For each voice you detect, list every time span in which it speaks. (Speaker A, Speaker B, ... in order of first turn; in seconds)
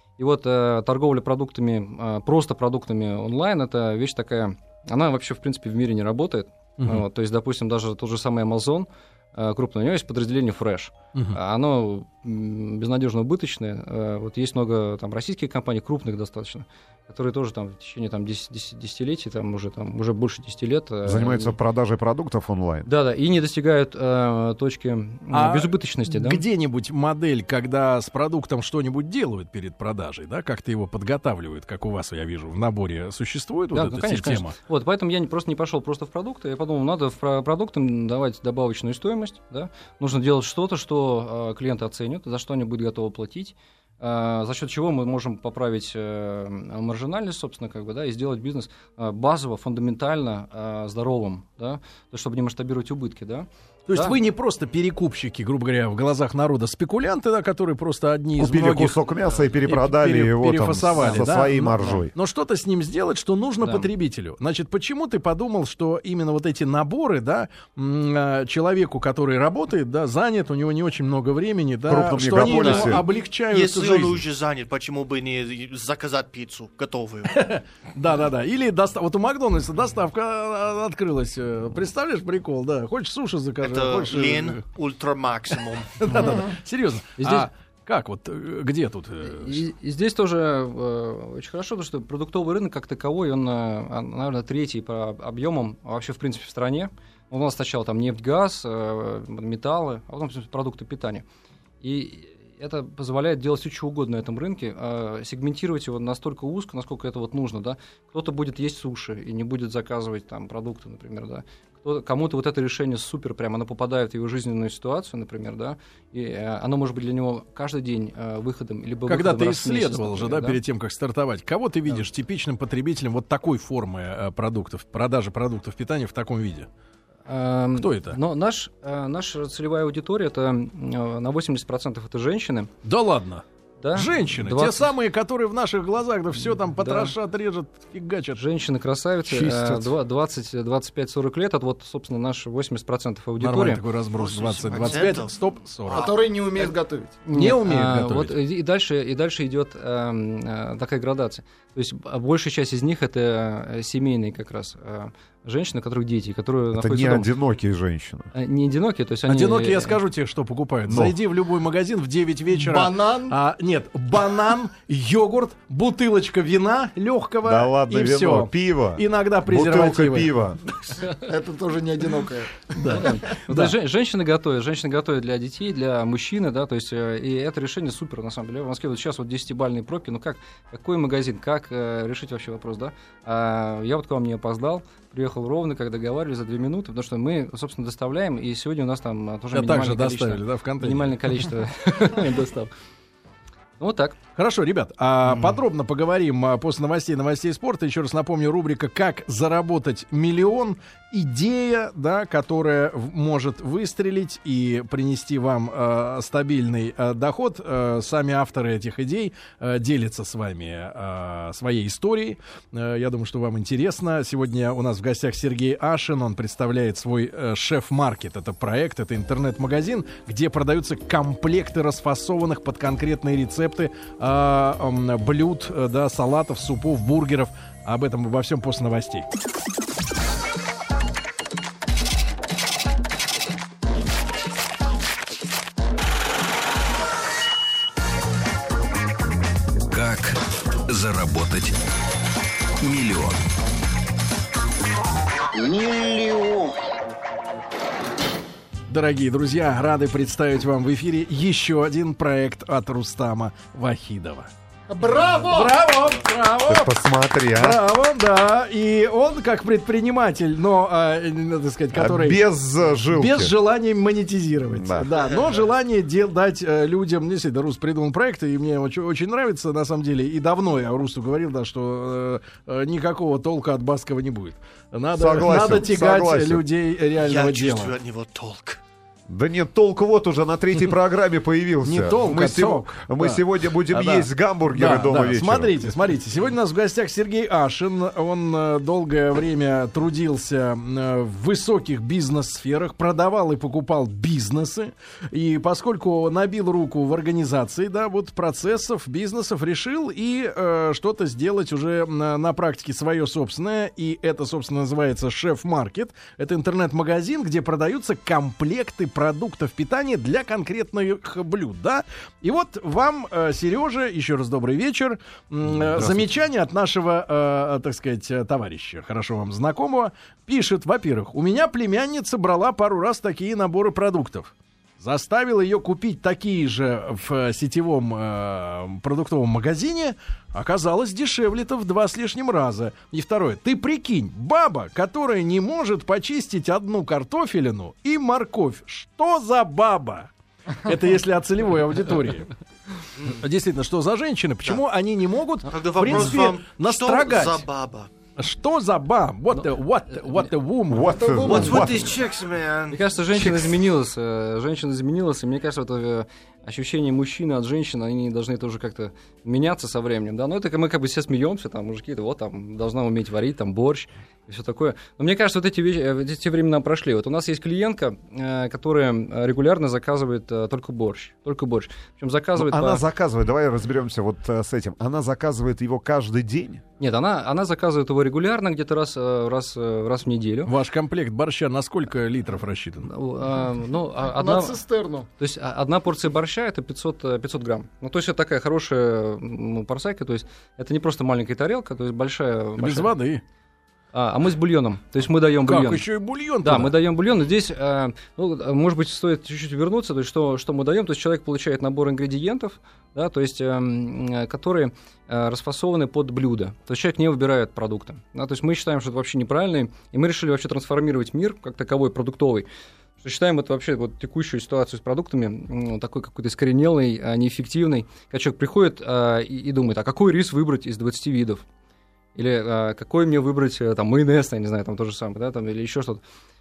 Speaker A: 0.2-21.6, 22.9-26.4, 33.7-54.2, 61.0-62.0, 63.6-63.9, 87.2-87.5, 89.2-101.2, 101.8-120.6, 127.3-132.7, 133.8-134.9, 136.5-137.2, 138.4-143.8, 147.2-157.3, 158.3-160.0, 172.9-192.7, 193.8-194.2, 351.5-351.8, 352.9-373.0, 377.0-380.7, 383.0-384.8, 385.4-393.1, 394.1-396.1, 396.6-412.7, 413.2-421.6, 422.4-426.2
Speaker B: 21.1-22.9, 58.4-62.1, 71.9-73.0, 156.7-158.3, 160.9-161.2, 167.4-170.6, 256.7-257.8, 261.9-263.5, 264.7-265.1, 275.1-276.6, 279.3-285.8, 315.7-316.3, 350.9-352.2, 372.6-376.8
Speaker C: 25.3-34.5, 53.9-59.0, 59.6-74.2, 77.3-84.6, 85.5-89.6, 119.1-126.7, 127.8-128.2, 132.8-133.4, 133.9-138.4, 139.2-139.9, 143.4-146.1, 147.3-148.4, 159.3-170.3, 172.8-173.8, 189.5-191.4, 194.4-229.3, 248.9-254.5, 255.4-262.4, 263.1-278.0, 281.8-342.5, 343.3-347.6, 348.4-351.3, 380.7-383.1, 392.8-393.4, 395.6-397.0
Speaker D: 72.4-77.3, 83.6-86.3, 144.2-146.2, 277.2-278.8, 343.2-343.4, 345.6-348.1, 351.3-353.7
Speaker E: 145.9-147.2, 162.6-163.4, 171.0-173.2, 254.9-255.8, 351.1-351.9, 384.3-385.3
Speaker F: 239.9-241.8, 242.8-243.4